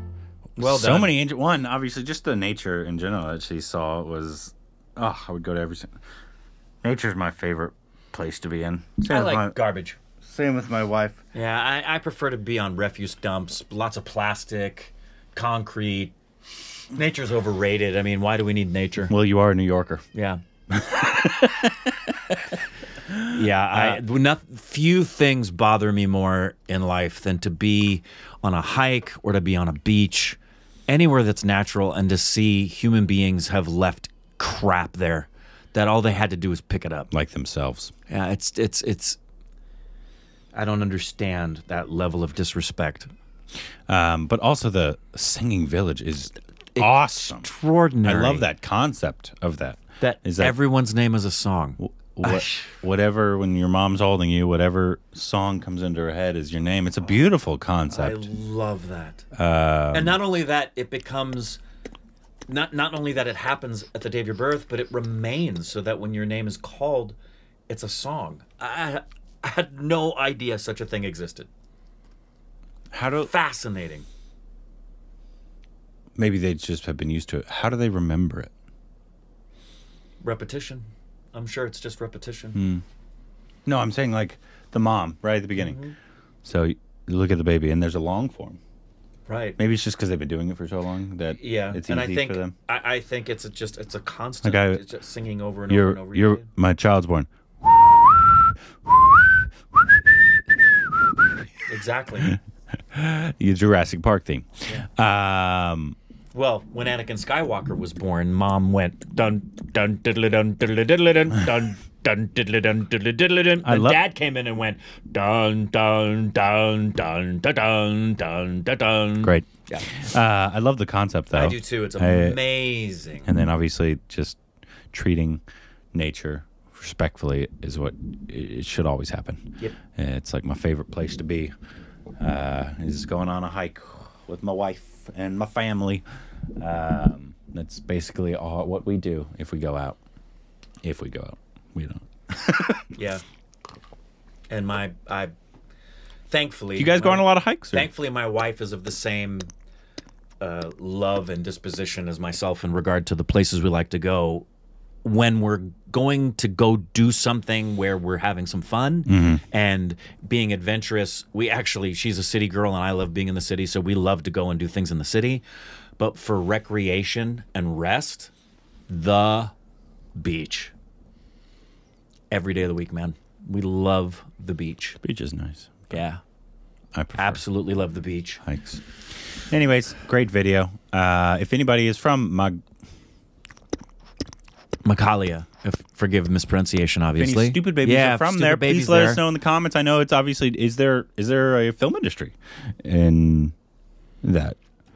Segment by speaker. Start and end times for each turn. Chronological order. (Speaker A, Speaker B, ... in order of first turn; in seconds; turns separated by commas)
Speaker A: 0.6-1.1, Speaker B: 0.6-5.9, Speaker B: 6.8-9.5, Speaker A: 9.1-10.0, Speaker B: 10.3-11.2, Speaker A: 11.3-16.1, Speaker A: 16.9-19.1, Speaker B: 19.1-20.0, Speaker A: 20.1-20.4, Speaker B: 20.7-21.7, Speaker A: 23.3-37.1, Speaker B: 37.1-37.9, Speaker A: 38.1-39.2, Speaker A: 40.5-43.1, Speaker B: 43.9-47.5, Speaker A: 46.8-48.5, Speaker B: 48.0-50.5, Speaker A: 50.0-52.7, Speaker B: 51.8-58.2, Speaker A: 57.9-59.3, Speaker B: 59.4-60.1, Speaker A: 59.9-61.6, Speaker A: 62.5-67.2, Speaker A: 67.7-71.5, Speaker B: 72.9-73.3, Speaker A: 73.1-74.0, Speaker B: 76.2-78.5, Speaker A: 80.2-82.6, Speaker B: 82.5-82.8, Speaker B: 83.7-85.8, Speaker A: 85.5-86.0, Speaker B: 86.4-88.6, Speaker A: 89.3-89.6, Speaker B: 89.6-92.5, Speaker A: 91.4-96.5, Speaker B: 94.4-94.8, Speaker B: 95.7-97.3, Speaker A: 101.7-102.3, Speaker B: 102.9-106.0, Speaker A: 106.3-119.9, Speaker B: 113.6-114.0, Speaker B: 120.1-122.3, Speaker A: 121.3-123.3, Speaker B: 123.3-124.4, Speaker B: 124.9-125.4, Speaker B: 125.9-129.4, Speaker B: 129.9-131.5, Speaker B: 132.2-136.0, Speaker B: 136.6-140.0, Speaker B: 140.8-142.8, Speaker A: 142.9-143.2, Speaker A: 144.5-145.3, Speaker A: 146.3-149.5, Speaker B: 146.8-147.8, Speaker A: 150.4-154.4, Speaker A: 155.0-165.4, Speaker B: 159.1-159.4, Speaker A: 166.0-168.3, Speaker A: 168.9-169.5, Speaker A: 170.2-170.7, Speaker A: 172.3-175.0, Speaker B: 175.0-175.8, Speaker A: 175.9-176.2, Speaker B: 176.9-177.4, Speaker A: 177.2-178.4, Speaker B: 178.4-178.8, Speaker B: 179.5-182.6, Speaker A: 184.8-189.2, Speaker B: 187.2-193.5, Speaker B: 194.2-194.6